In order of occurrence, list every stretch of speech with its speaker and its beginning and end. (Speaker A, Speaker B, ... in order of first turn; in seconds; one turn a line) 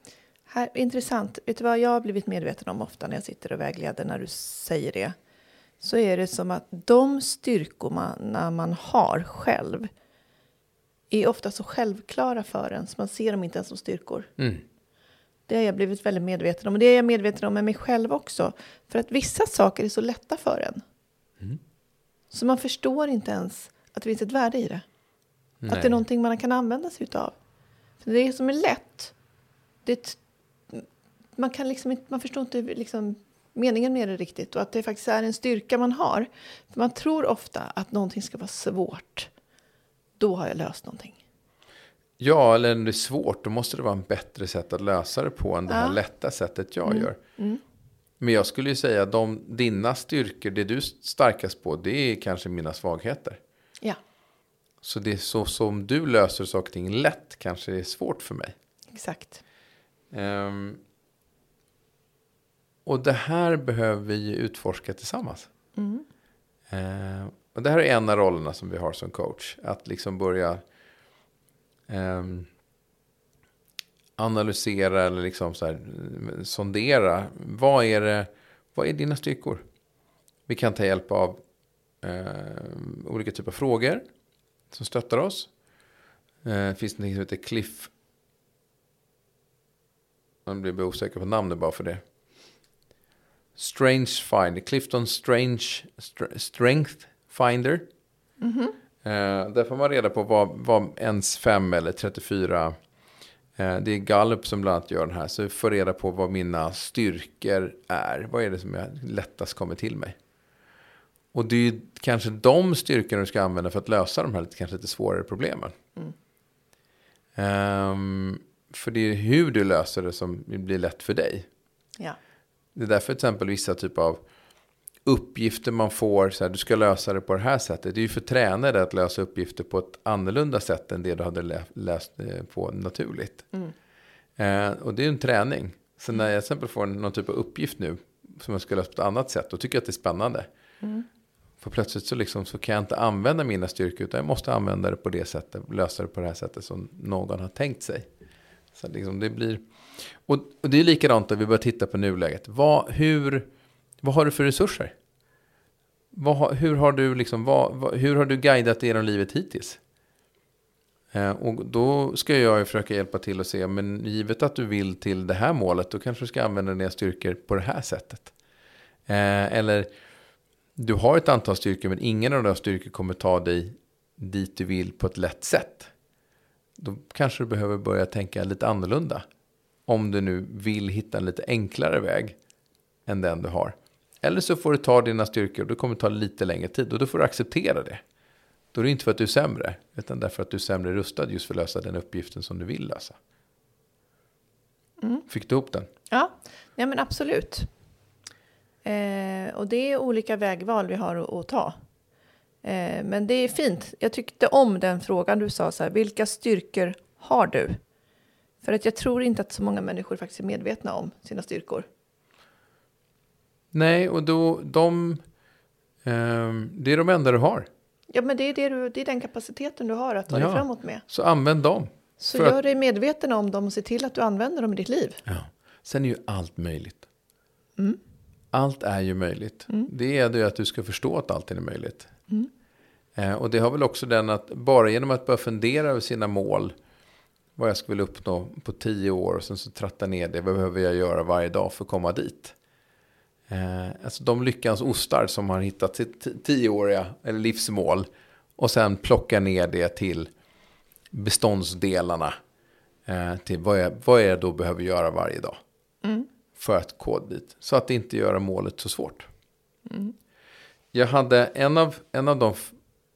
Speaker A: 0.5-5.1
Speaker A: 5.8-9.9
Speaker A: 11.1-14.3
Speaker B: 14.4-14.6
Speaker A: 15.5-20.8
Speaker A: 22.3-24.8
Speaker B: 25.6-26.0
Speaker A: 25.7-27.4
Speaker A: 28.0-29.1
Speaker A: 29.8-39.3
Speaker A: 40.2-41.2
Speaker B: 42.2-47.2
Speaker A: 45.7-46.0
Speaker A: 46.8-47.6
Speaker B: 48.2-53.4
Speaker B: 54.8-58.5
Speaker A: 58.9-59.4
Speaker B: 60.1-60.8
Speaker B: 62.9-65.5
Speaker A: 65.8-66.0
Speaker B: 66.7-70.6
Speaker B: 71.9-72.5
Speaker B: 74.2-79.6
Speaker B: 80.5-81.4
Speaker B: 82.0-84.0
Speaker B: 84.7-85.5
Speaker B: 86.4-87.9
Speaker B: 90.5-92.0
Speaker B: 93.5-97.9
Speaker A: 98.4-98.7
Speaker B: 99.0-102.8
Speaker B: 103.6-110.2
Speaker B: 111.3-115.7
Speaker B: 117.3-121.5
Speaker B: 122.7-124.2
Speaker B: 125.0-133.4
Speaker B: 134.4-140.5
Speaker B: 141.6-148.1
Speaker B: 148.7-153.4
Speaker B: 154.0-154.9
Speaker B: 156.1-159.8
Speaker B: 161.1-168.3
Speaker B: 169.1-169.9
Speaker B: 170.8-175.9
Speaker B: 176.8-179.2
Speaker B: 179.9-182.4
Speaker B: 183.1-188.0
Speaker B: 188.7-193.2
Speaker B: 195.3-195.9
Speaker A: 196.1-197.7
Speaker A: 198.8-201.8
Speaker A: 202.6-207.8
Speaker A: 208.6-211.8
Speaker B: 213.7-215.2
Speaker B: 216.0-217.7
Speaker A: 218.1-221.0
Speaker B: 220.3-222.6
Speaker A: 222.2-225.2
Speaker B: 225.2-227.1
Speaker B: 228.5-232.1
Speaker B: 233.2-236.7
Speaker B: 237.6-242.6
Speaker B: 243.5-250.3
Speaker B: 251.1-252.3
Speaker B: 253.1-255.6
Speaker B: 256.5-259.3
Speaker A: 259.9-260.1
Speaker B: 260.9-262.8